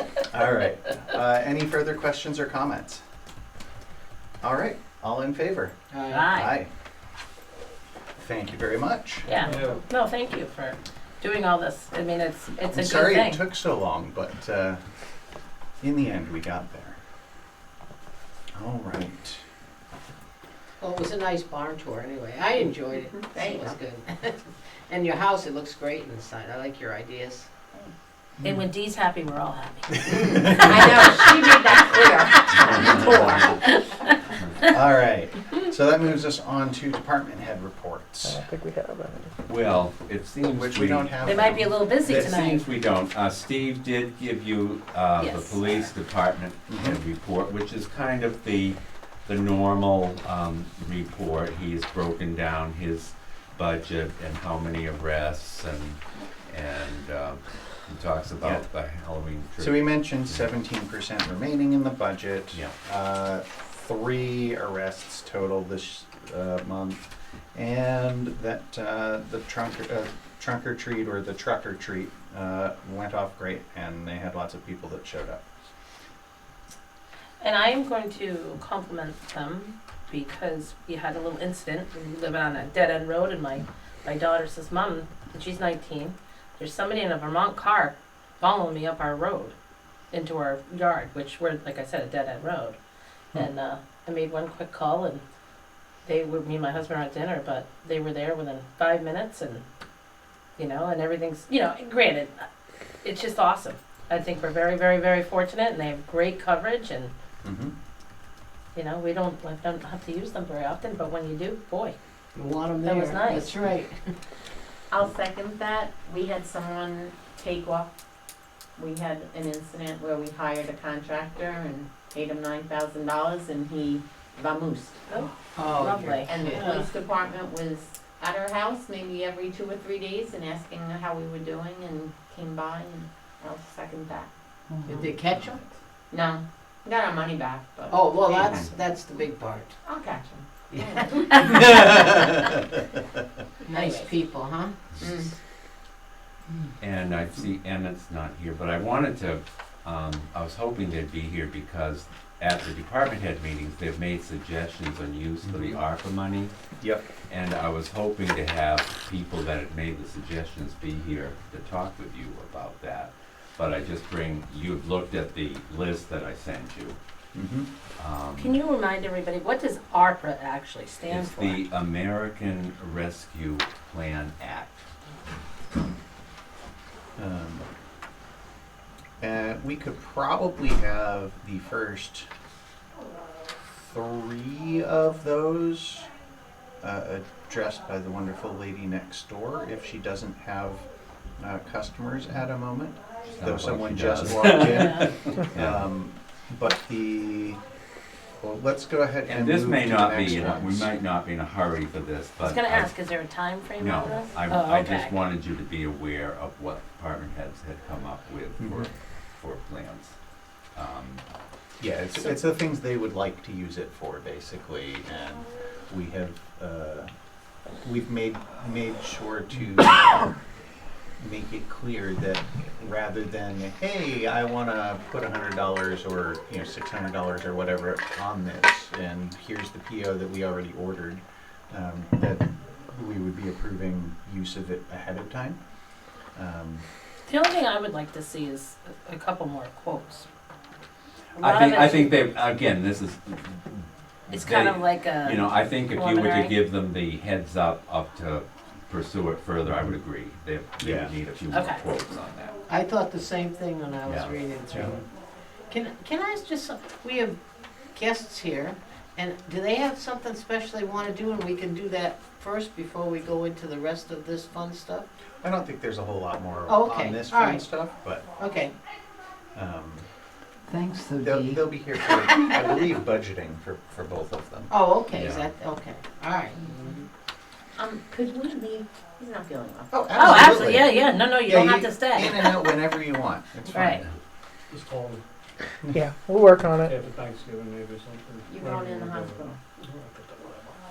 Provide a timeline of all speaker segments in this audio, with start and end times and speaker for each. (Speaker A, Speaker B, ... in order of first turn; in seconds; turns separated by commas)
Speaker A: 0.3-3.0, Speaker A: 4.4-6.7, Speaker B: 5.9-6.3, Speaker C: 6.1-6.5, Speaker A: 8.2-9.3, Speaker C: 9.3-13.4, Speaker D: 9.5-9.8, Speaker A: 12.7-14.8, Speaker A: 15.8-17.0, Speaker A: 18.6-19.4, Speaker B: 20.8-27.5, Speaker E: 23.1-23.8, Speaker C: 28.4-34.1, Speaker E: 30.4-33.8, Speaker F: 32.7-33.4, Speaker A: 34.7-38.5, Speaker G: 38.2-39.3, Speaker F: 39.5-41.3, Speaker A: 40.4-42.6, Speaker C: 41.2-42.6, Speaker F: 42.0-60.5, Speaker C: 45.2-45.9, Speaker A: 46.7-47.0, Speaker A: 59.6-67.0, Speaker A: 67.5-75.4, Speaker C: 77.4-89.5, Speaker C: 90.1-92.8, Speaker C: 93.3-95.2, Speaker C: 96.0-99.7, Speaker C: 100.6-102.5, Speaker C: 103.0-107.1, Speaker A: 107.4-107.7, Speaker C: 108.8-112.0, Speaker B: 112.3-114.2, Speaker C: 112.8-113.6, Speaker E: 114.9-117.9, Speaker E: 118.8-125.1, Speaker C: 125.1-126.3, Speaker B: 125.6-126.9, Speaker E: 126.2-134.3, Speaker B: 134.8-135.6, Speaker E: 136.1-138.7, Speaker B: 137.9-139.8, Speaker F: 138.4-138.7, Speaker E: 139.8-141.9, Speaker B: 140.7-141.0, Speaker C: 143.7-144.1, Speaker B: 143.7-144.8, Speaker E: 145.0-145.3, Speaker F: 146.8-156.5, Speaker A: 155.4-155.8, Speaker A: 156.8-157.1, Speaker F: 157.3-167.0, Speaker A: 167.3-167.7, Speaker F: 168.0-168.6, Speaker C: 168.4-171.6, Speaker F: 171.1-174.8, Speaker A: 177.2-177.7, Speaker A: 179.2-182.3, Speaker A: 183.8-186.1, Speaker A: 186.8-190.9, Speaker A: 191.4-197.6, Speaker F: 193.3-195.9, Speaker C: 194.7-195.1, Speaker A: 198.4-200.9, Speaker F: 199.2-202.9, Speaker C: 202.4-205.2, Speaker F: 203.8-210.2, Speaker A: 208.6-208.9, Speaker F: 210.7-211.2, Speaker A: 211.8-217.1, Speaker A: 217.8-220.3, Speaker A: 221.2-235.6, Speaker A: 236.3-236.8, Speaker C: 237.3-240.3, Speaker C: 241.4-242.2, Speaker F: 241.4-252.6, Speaker C: 244.3-246.6, Speaker A: 250.8-251.1, Speaker C: 251.5-251.9, Speaker B: 252.7-255.0, Speaker F: 254.1-254.8, Speaker B: 255.7-257.4, Speaker B: 257.9-265.1, Speaker A: 265.4-268.3, Speaker B: 266.7-267.6, Speaker B: 268.4-268.7, Speaker A: 269.5-270.1, Speaker B: 270.7-271.0, Speaker A: 271.1-274.8, Speaker B: 274.7-276.7, Speaker F: 275.2-275.5, Speaker E: 277.8-280.0, Speaker A: 279.9-284.1, Speaker C: 280.1-282.6, Speaker C: 283.7-284.0, Speaker D: 284.8-285.2, Speaker G: 285.9-286.9, Speaker D: 286.9-290.7, Speaker E: 288.5-289.6